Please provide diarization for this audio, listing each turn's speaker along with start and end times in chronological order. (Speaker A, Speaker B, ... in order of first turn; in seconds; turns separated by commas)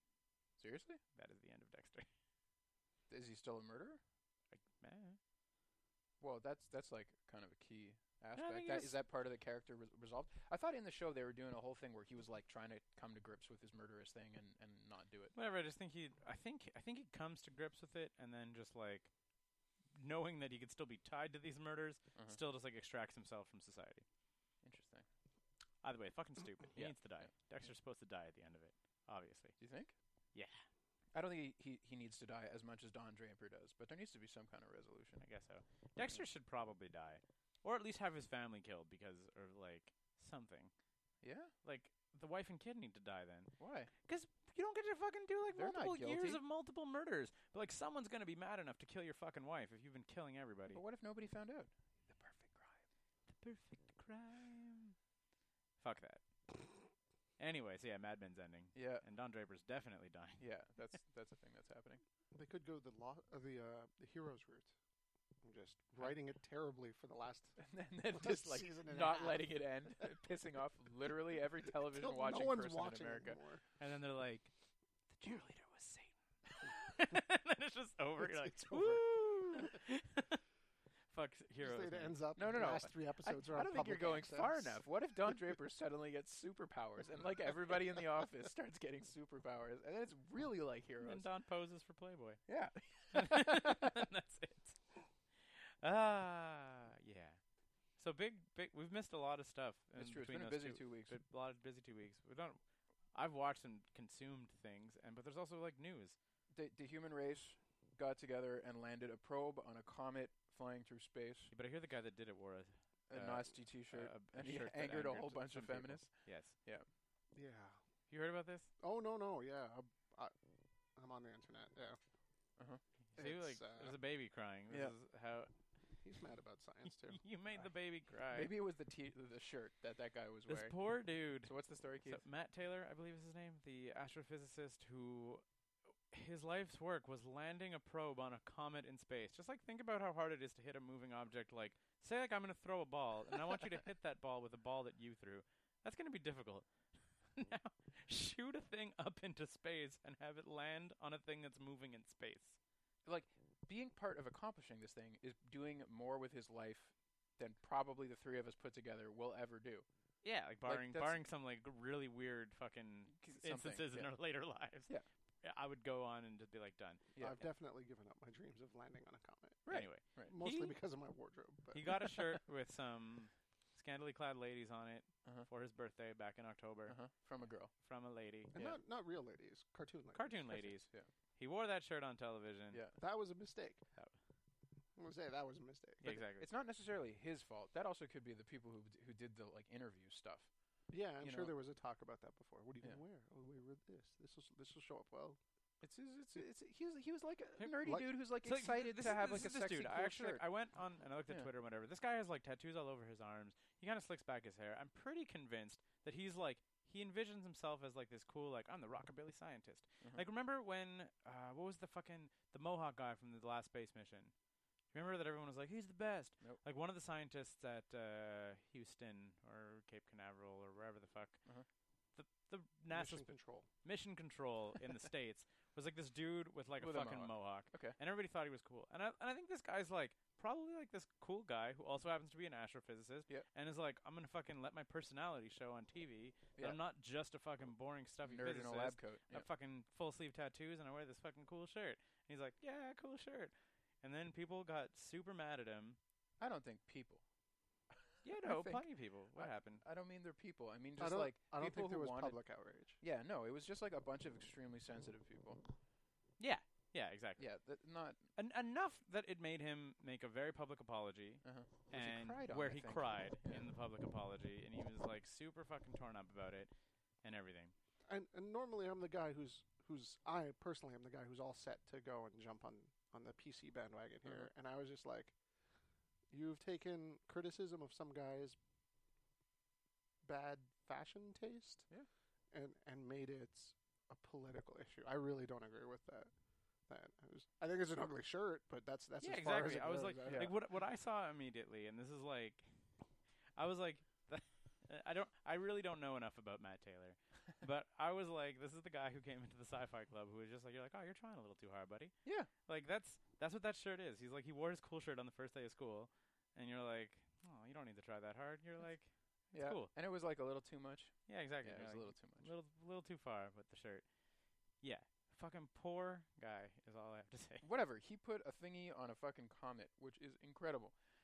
Speaker A: 0.6-1.0, Speaker B: 1.1-2.1, Speaker A: 3.1-4.0, Speaker B: 4.5-5.2, Speaker A: 6.2-15.3, Speaker B: 8.3-9.0, Speaker B: 15.3-19.1, Speaker B: 19.9-24.0, Speaker A: 24.6-25.1, Speaker B: 25.8-29.6, Speaker A: 26.8-27.3, Speaker A: 29.6-29.9, Speaker B: 30.3-30.6, Speaker A: 31.1-35.2, Speaker B: 35.2-40.7, Speaker A: 41.2-41.5, Speaker B: 41.6-50.8, Speaker A: 43.6-43.9, Speaker A: 45.5-46.4, Speaker A: 50.7-52.8, Speaker B: 53.3-55.0, Speaker B: 55.8-56.6, Speaker B: 57.4-60.4, Speaker A: 58.7-59.0, Speaker A: 60.4-62.0, Speaker C: 62.3-64.7, Speaker C: 65.4-70.2, Speaker A: 67.6-73.4, Speaker C: 71.6-73.6, Speaker B: 73.8-74.5, Speaker B: 75.1-80.4, Speaker C: 78.2-79.7, Speaker B: 81.1-82.2, Speaker C: 81.6-85.4, Speaker A: 82.3-91.2, Speaker B: 91.0-92.4, Speaker A: 92.5-93.9, Speaker B: 93.1-97.4, Speaker B: 98.0-102.6, Speaker A: 100.0-101.2, Speaker B: 103.1-106.2, Speaker A: 106.5-111.5, Speaker B: 111.5-116.5, Speaker A: 113.1-116.1, Speaker C: 117.3-117.8, Speaker B: 118.1-118.7, Speaker C: 118.8-120.3, Speaker C: 121.0-122.0, Speaker B: 123.1-125.5, Speaker C: 123.2-124.0, Speaker A: 124.7-124.9, Speaker C: 126.0-127.2, Speaker B: 127.1-128.5, Speaker A: 128.3-130.8, Speaker B: 130.5-135.4, Speaker A: 131.4-132.2, Speaker B: 136.1-146.7, Speaker B: 147.2-152.6, Speaker A: 153.0-159.8, Speaker B: 160.2-164.9, Speaker A: 160.6-161.2, Speaker A: 163.1-164.1, Speaker B: 165.4-167.1, Speaker C: 167.2-169.7, Speaker A: 169.7-170.3, Speaker B: 169.7-170.8, Speaker C: 170.2-172.2, Speaker B: 171.7-177.0, Speaker A: 176.9-177.7, Speaker B: 177.8-178.5, Speaker C: 178.5-180.5, Speaker B: 180.1-182.8, Speaker A: 182.7-183.0, Speaker C: 183.0-183.8, Speaker C: 184.9-186.0, Speaker B: 186.0-186.5, Speaker A: 186.0-190.5, Speaker C: 190.9-195.4, Speaker A: 191.2-191.5, Speaker A: 195.8-200.4, Speaker B: 198.4-214.3, Speaker B: 214.9-221.4, Speaker B: 222.2-246.0, Speaker C: 222.9-223.7, Speaker A: 226.8-228.0, Speaker A: 238.2-239.5, Speaker A: 246.4-247.2, Speaker A: 247.9-252.4, Speaker B: 248.2-249.8, Speaker C: 251.0-253.0, Speaker A: 253.0-255.6, Speaker B: 256.4-257.5, Speaker A: 257.4-258.2, Speaker B: 258.4-266.7, Speaker A: 261.4-263.7, Speaker B: 267.2-267.7, Speaker C: 268.1-275.3, Speaker C: 276.3-278.6, Speaker C: 280.2-281.9, Speaker C: 282.5-286.3, Speaker C: 286.9-290.6, Speaker B: 289.2-292.7, Speaker A: 290.2-290.5, Speaker B: 293.6-302.1, Speaker A: 302.2-302.5, Speaker B: 302.6-309.9, Speaker A: 309.5-312.5, Speaker B: 311.3-314.0, Speaker B: 314.8-317.6, Speaker A: 317.6-320.9